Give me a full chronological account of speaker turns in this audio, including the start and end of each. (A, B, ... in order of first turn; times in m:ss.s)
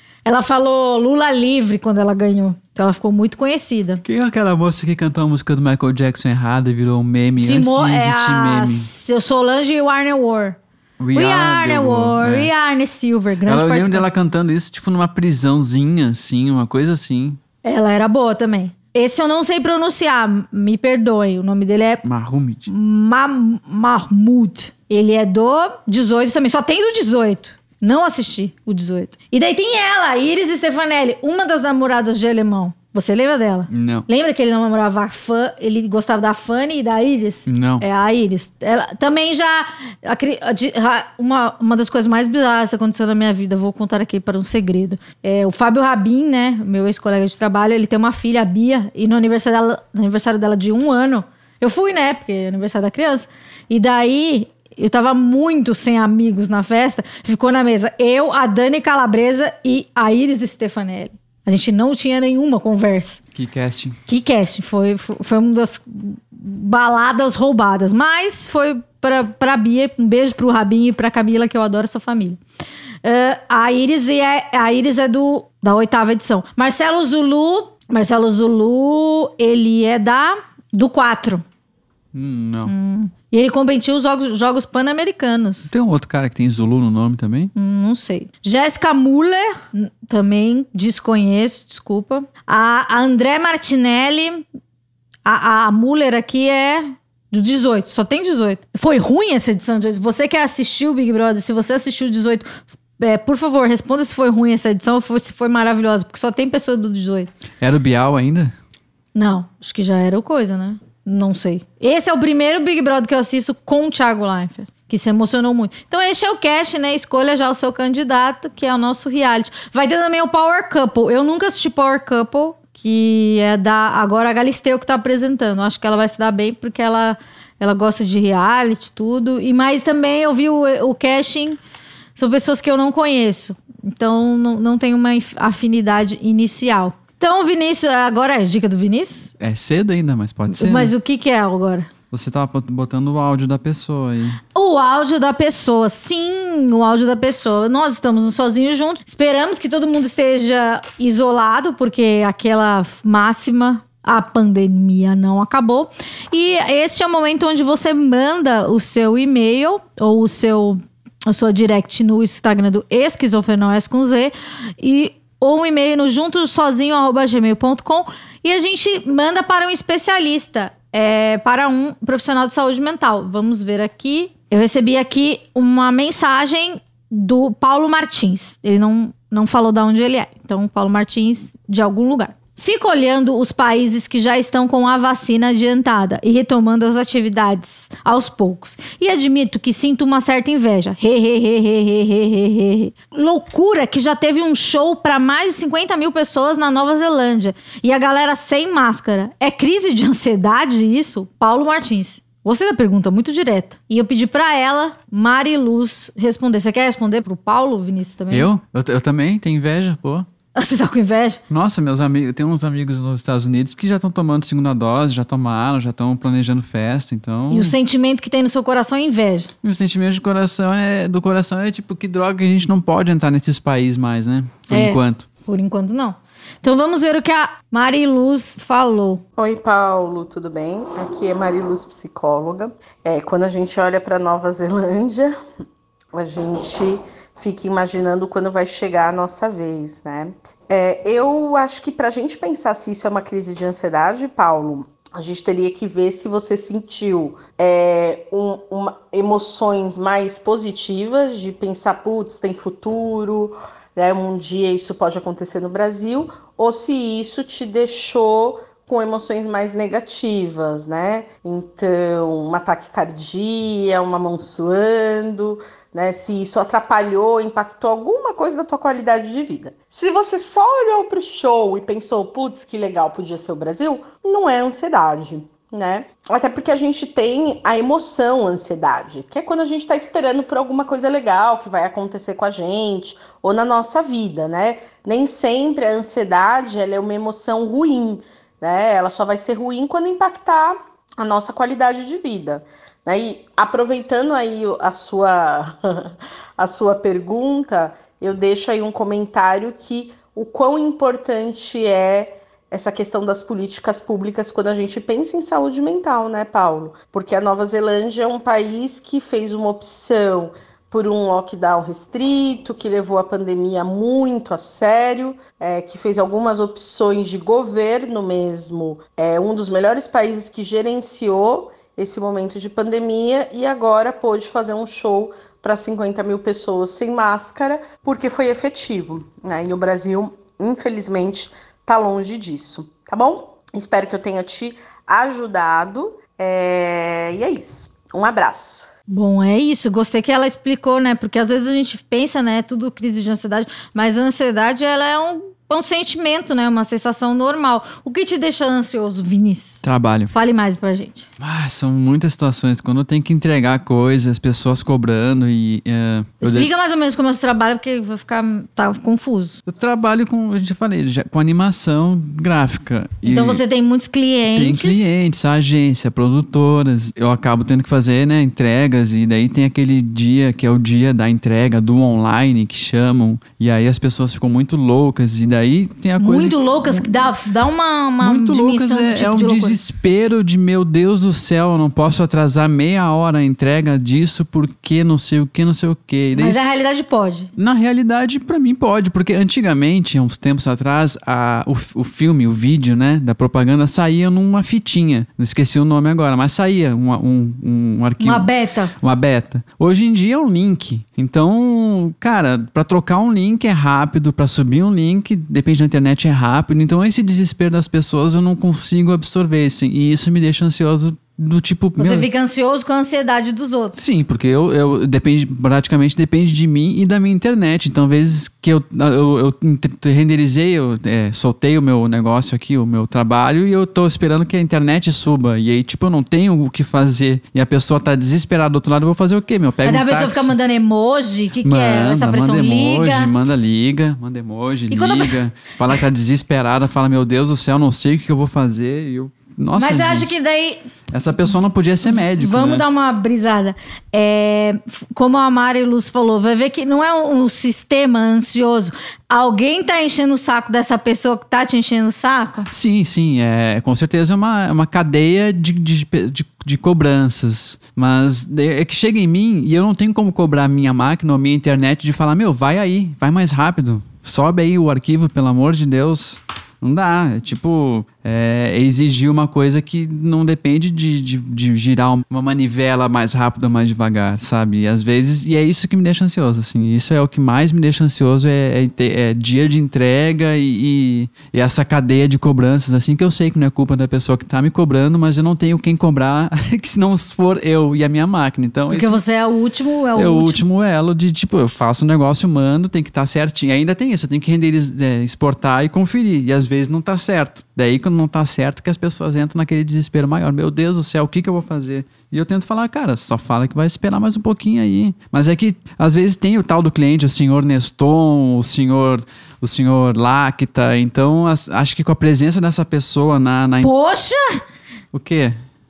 0:00.2-0:04.0 A
0:04.0-0:08.9 B
0:07.4-0:10.6 A
0:11.0-0:12.5 B
0:11.1-0:14.1 A
0:13.4-0:17.4 B
0:17.6-0:22.0 A
0:22.0-0:22.7 B
0:22.7-1:03.2 A
0:33.7-0:34.1 B
0:37.5-0:37.8 B
1:03.4-1:04.0 B
1:04.1-1:12.4 A
1:13.0-1:21.4 A
1:22.1-1:22.7 B
1:22.7-1:25.7 A
1:25.7-1:27.5 B
1:27.6-1:34.4 A
1:35.2-1:47.3 A
1:47.6-1:48.5 B
1:49.2-2:11.6 A
2:12.2-2:19.3 A
2:19.4-2:20.9 B
2:20.5-2:21.9 A
2:22.1-2:24.4 B
2:24.6-3:28.5 A
3:28.3-3:30.2 B
3:30.6-3:31.4 A
3:31.5-3:37.8 B
3:37.5-3:39.5 A
3:39.6-3:45.3 B
3:44.7-3:49.2 A
3:49.4-3:55.4 C
3:56.1-5:38.9 C
5:39.1-5:51.3 A
5:49.8-5:50.3 B
5:51.4-5:56.7 B
5:56.4-5:59.6 A
5:59.7-6:03.6 B
6:03.2-6:05.1 A
6:04.6-6:17.2 B
6:16.2-6:19.8 A
6:18.2-6:26.6 B
6:26.4-6:27.5 A
6:27.6-6:38.5 B
6:38.2-6:38.9 A
6:39.0-6:52.3 B
6:52.0-6:54.0 A
6:54.0-7:10.5 B
7:09.8-7:13.3 A
7:11.6-7:20.3 B
7:14.9-7:15.4 A
7:19.8-7:20.9 A
7:21.1-7:22.8 B
7:22.1-7:32.7 A
7:32.7-8:09.2 B
8:08.9-8:10.6 A
8:10.2-8:33.9 B
8:33.8-8:34.6 A
8:35.1-8:35.6 B